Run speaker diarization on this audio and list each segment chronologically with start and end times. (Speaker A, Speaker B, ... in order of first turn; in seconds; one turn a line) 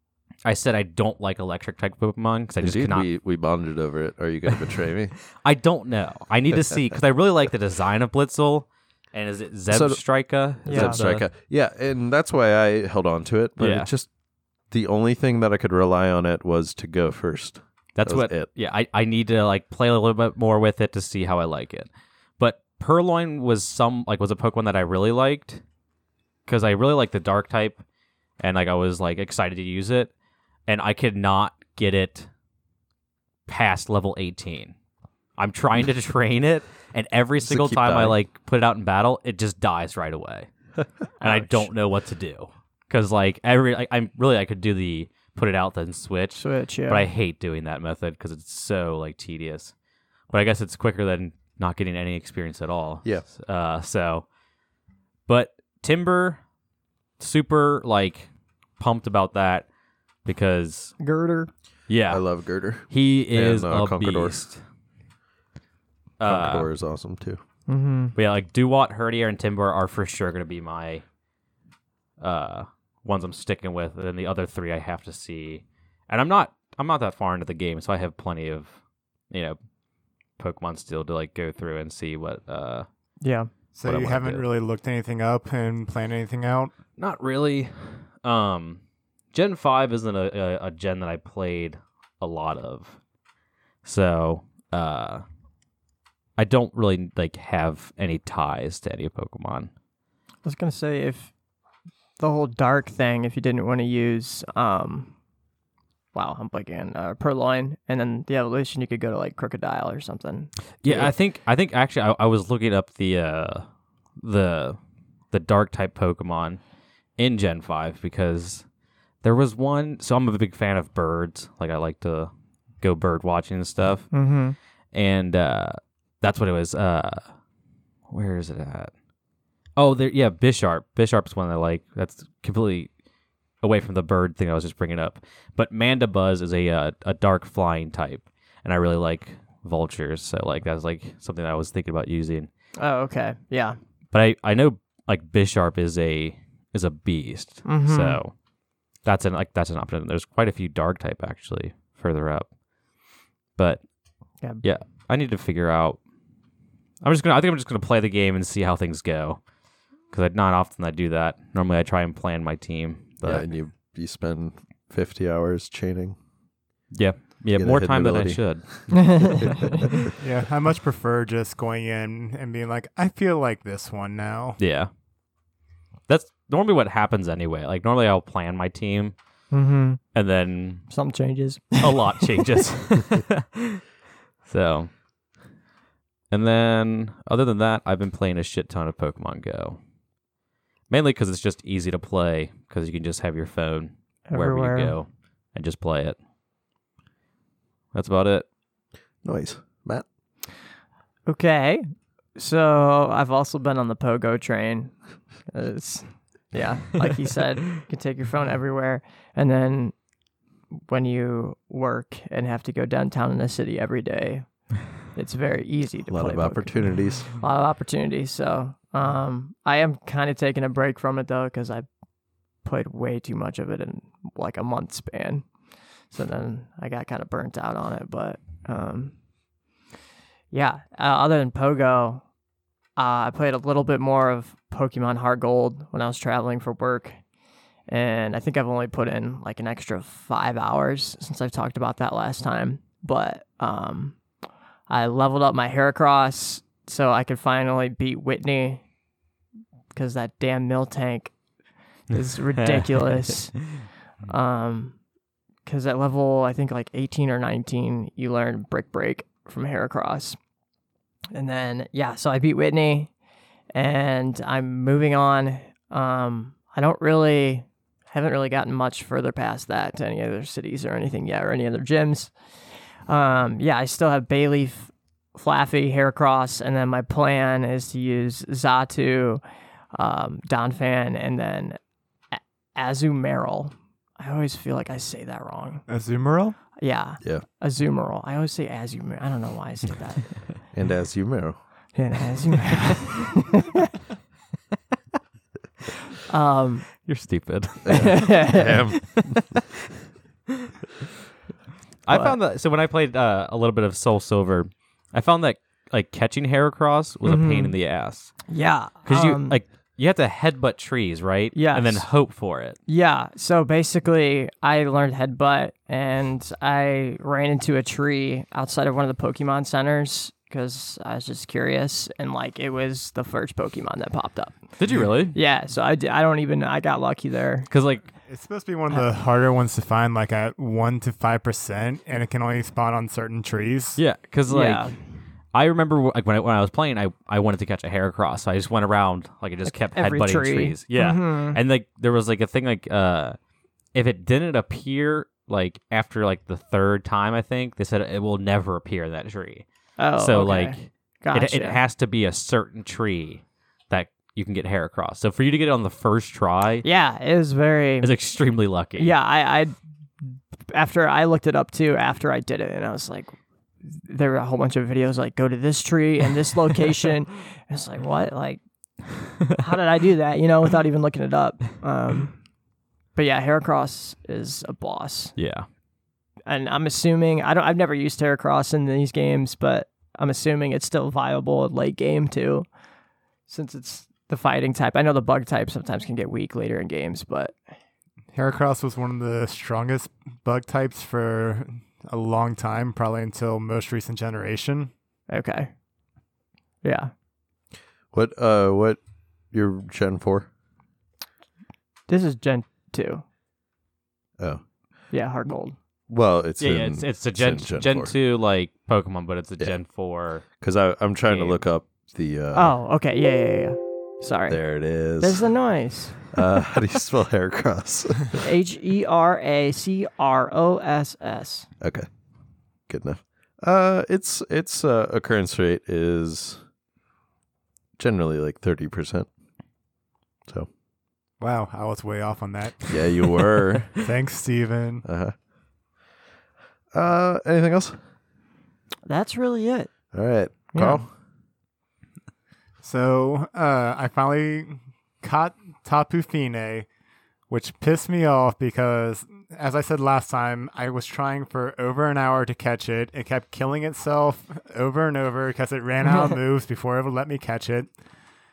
Speaker A: 0.4-3.1
Speaker B: 2.6-5.1
Speaker A: 5.3-11.2
Speaker B: 9.7-10.0
Speaker B: 10.6-14.1
Speaker C: 10.7-11.0
Speaker A: 13.6-13.9
Speaker B: 14.7-18.5
Speaker A: 17.9-25.6
Speaker A: 26.5-27.8
Speaker A: 28.4-30.1
Speaker A: 30.7-32.3
Speaker A: 33.5-34.7
Speaker A: 35.4-40.5
Speaker B: 37.4-38.2
Speaker C: 41.2-41.6
Speaker A: 41.2-49.7
Speaker C: 46.4-47.1
Speaker A: 50.3-54.2
Speaker A: 55.3-56.4
Speaker A: 57.2-59.6
Speaker A: 60.2-60.9
Speaker C: 61.0-61.5
Speaker A: 61.9-62.2
Speaker B: 62.1-64.4
Speaker A: 62.9-64.6
Speaker A: 66.2-66.7
Speaker B: 66.2-67.4
Speaker C: 67.7-68.1
Speaker A: 68.2-71.0
Speaker A: 72.2-78.7
Speaker A: 79.3-79.6
Speaker A: 80.4-82.8
Speaker C: 83.2-83.5
Speaker D: 83.7-86.7
Speaker A: 83.8-84.5
Speaker A: 87.0-88.8
Speaker A: 89.3-93.0
Speaker A: 93.8-95.2
Speaker A: 96.4-99.7
Speaker C: 100.4-101.3
Speaker C: 102.2-105.1
Speaker C: 106.1-111.1
Speaker A: 110.8-113.7
Speaker A: 114.2-114.8
Speaker A: 115.3-116.6
Speaker A: 117.2-118.6
Speaker A: 119.2-124.1
Speaker C: 124.1-124.5
Speaker A: 124.9-127.3
Speaker A: 128.1-128.9
Speaker A: 129.8-132.9
Speaker A: 133.6-142.5
Speaker C: 142.8-143.8
Speaker A: 144.1-148.3
Speaker C: 147.6-148.2
Speaker A: 149.0-152.4
Speaker A: 153.6-153.8
Speaker A: 154.6-156.0
Speaker A: 157.0-159.4
Speaker A: 160.1-163.4
Speaker B: 163.2-166.2
Speaker A: 166.9-169.4
Speaker B: 167.6-170.1
Speaker C: 168.9-169.7
Speaker D: 170.2-174.6
Speaker A: 174.6-174.9
Speaker A: 176.1-179.1
Speaker C: 179.5-180.0
Speaker A: 180.1-180.8
Speaker C: 180.9-182.6
Speaker A: 181.8-183.8
Speaker A: 184.5-184.9
Speaker A: 186.3-189.8
Speaker A: 190.9-196.2
Speaker C: 194.3-194.9
Speaker A: 197.9-198.4
Speaker B: 199.2-200.1
Speaker C: 201.3-201.8
Speaker C: 202.3-205.0
Speaker C: 205.5-209.9
Speaker C: 210.7-221.9
Speaker B: 216.1-217.3
Speaker C: 222.6-225.4
Speaker C: 226.1-229.1
Speaker C: 230.5-232.2
Speaker C: 233.0-237.2
Speaker C: 237.9-244.2
Speaker C: 244.9-248.8
Speaker C: 249.9-251.3
Speaker C: 252.1-253.6
Speaker A: 252.6-252.9
Speaker C: 254.3-254.9
Speaker C: 255.7-260.4
Speaker C: 261.3-263.1
Speaker C: 263.7-272.3
Speaker C: 273.1-279.4
Speaker C: 279.9-281.8
Speaker C: 282.3-285.8
Speaker D: 285.9-286.6
Speaker C: 286.8-290.5
Speaker B: 290.7-291.6
Speaker C: 291.9-293.9
Speaker C: 296.3-296.9
Speaker A: 297.0-299.6
Speaker B: 297.9-299.3
Speaker C: 297.9-299.0
Speaker A: 302.1-308.3
Speaker C: 302.1-302.4
Speaker C: 307.2-307.7
Speaker C: 308.5-309.6
Speaker A: 309.1-312.8
Speaker C: 311.5-312.1
Speaker C: 312.9-324.6
Speaker A: 324.8-325.4
Speaker C: 325.3-327.7
Speaker A: 327.7-328.1
Speaker D: 328.3-334.0
Speaker A: 334.0-335.0
Speaker C: 334.5-334.9
Speaker A: 335.5-343.4
Speaker C: 339.6-341.6
Speaker A: 343.9-356.9
Speaker C: 350.0-351.8
Speaker C: 356.8-358.1
Speaker A: 358.0-359.1
Speaker C: 359.0-368.6
Speaker C: 369.5-372.4
Speaker C: 373.1-375.3
Speaker A: 375.4-375.6
Speaker C: 376.4-382.7
Speaker C: 383.5-387.6
Speaker D: 388.3-394.9
Speaker C: 395.3-395.7
Speaker C: 396.8-397.1
Speaker B: 398.1-400.5
Speaker C: 402.1-403.2
Speaker C: 405.1-405.8
Speaker B: 406.1-408.1
Speaker A: 406.6-410.5
Speaker B: 410.6-412.7
Speaker A: 411.2-411.6
Speaker C: 412.5-416.4
Speaker B: 414.5-415.4
Speaker B: 416.3-418.4
Speaker C: 418.4-421.7
Speaker B: 421.8-422.1
Speaker B: 422.9-426.6
Speaker B: 428.0-429.3
Speaker D: 431.4-432.9
Speaker B: 432.9-433.9
Speaker D: 434.0-435.0
Speaker B: 435.0-435.3
Speaker B: 436.9-438.0
Speaker C: 439.1-439.9
Speaker B: 440.1-441.1
Speaker C: 440.7-441.0
Speaker D: 442.8-446.9
Speaker D: 447.5-457.9